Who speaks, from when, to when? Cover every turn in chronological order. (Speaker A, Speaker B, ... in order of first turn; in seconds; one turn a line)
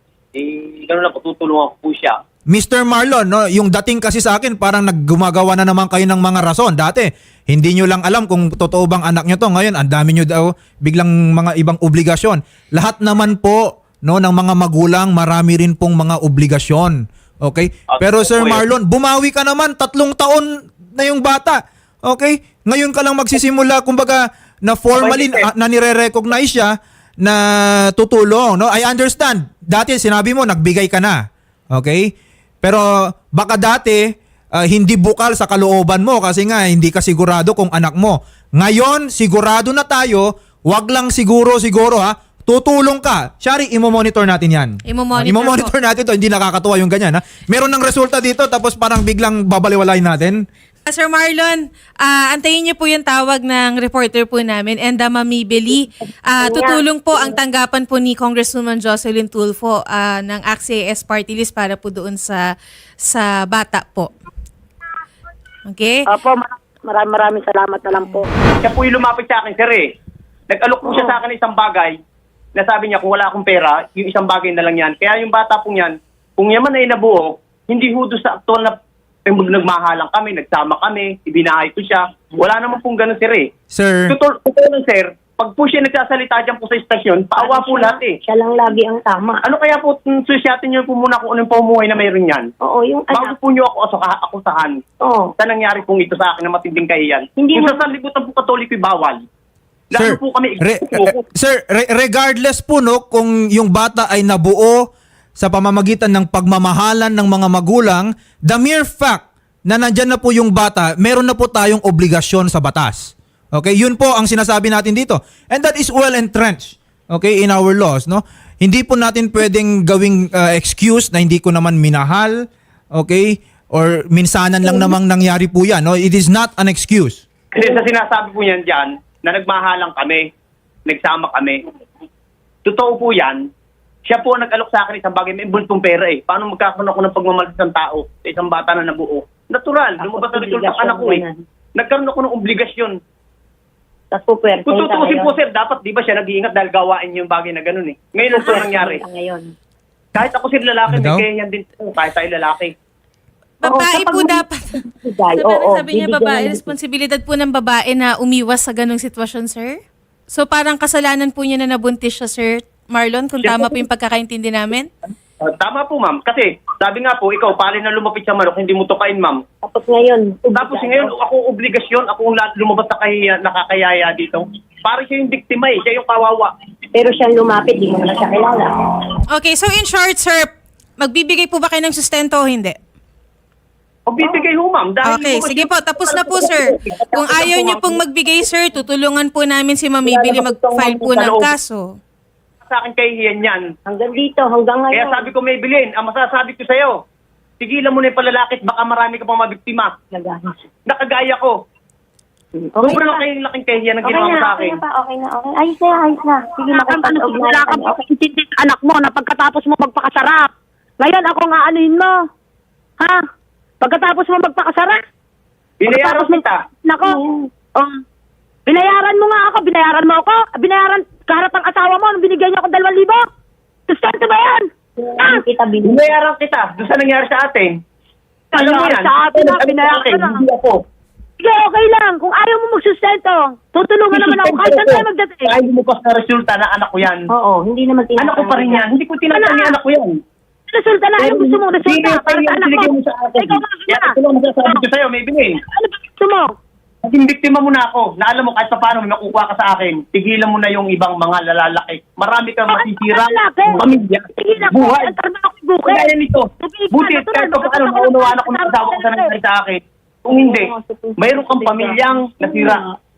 Speaker A: 0.3-2.2
Speaker B: 2.5-31.2
Speaker A: 17.9-18.6
Speaker A: 24.9-25.5
Speaker B: 31.7-32.1
Speaker B: 32.6-34.0
Speaker B: 34.6-50.4
Speaker C: 44.9-45.7
Speaker C: 50.9-62.5
Speaker C: 63.0-64.1
Speaker C: 65.7-66.0
Speaker D: 66.1-68.3
Speaker A: 68.6-69.9
Speaker A: 70.5-72.0
Speaker A: 72.5-78.8
Speaker A: 79.2-83.5
Speaker B: 83.7-84.1
Speaker A: 84.1-88.2
Speaker E: 87.4-89.4
Speaker A: 89.4-92.5
Speaker E: 92.6-93.4
Speaker A: 93.1-94.8
Speaker E: 95.0-95.3
Speaker A: 95.4-99.2
Speaker A: 99.9-101.2
Speaker B: 100.0-104.8
Speaker B: 105.4-122.4
Speaker B: 122.9-127.2
Speaker A: 127.5-130.3
Speaker A: 130.9-131.6
Speaker A: 132.6-133.4
Speaker A: 134.1-141.2
Speaker E: 140.0-141.4
Speaker A: 141.8-143.0
Speaker E: 144.1-145.3
Speaker A: 144.6-149.0
Speaker E: 148.3-149.5
Speaker A: 150.1-152.7
Speaker B: 150.9-151.2
Speaker C: 153.6-159.8
Speaker E: 153.7-154.4
Speaker E: 155.0-156.7
Speaker C: 160.3-164.9
Speaker A: 163.4-163.7
Speaker A: 165.4-169.4
Speaker E: 169.6-171.1
Speaker A: 170.5-176.5
Speaker E: 176.9-178.7
Speaker C: 179.3-182.8
Speaker A: 184.1-188.0
Speaker C: 185.0-191.9
Speaker A: 190.1-191.5
Speaker A: 192.7-193.6
Speaker E: 193.9-195.3
Speaker A: 194.9-196.9
Speaker A: 197.6-199.9
Speaker E: 200.1-200.5
Speaker A: 200.9-201.5
Speaker A: 202.8-204.8
Speaker E: 204.1-207.9
Speaker D: 206.7-210.5
Speaker D: 211.0-212.1
Speaker D: 213.8-215.0
Speaker A: 215.8-216.6
Speaker D: 215.9-217.2
Speaker D: 218.7-223.2
Speaker D: 223.9-224.7
Speaker D: 225.2-225.4
Speaker E: 225.2-226.0
Speaker A: 225.8-227.7
Speaker D: 228.5-230.4
Speaker A: 228.6-230.8
Speaker D: 231.4-235.5
Speaker A: 234.1-237.3
Speaker E: 237.4-238.8
Speaker A: 238.2-240.1
Speaker D: 239.3-239.8
Speaker D: 240.7-244.1
Speaker A: 241.2-245.6
Speaker D: 245.7-246.5
Speaker A: 247.1-255.1
Speaker D: 252.7-253.8
Speaker D: 254.4-259.4
Speaker A: 255.9-262.8
Speaker E: 260.4-262.8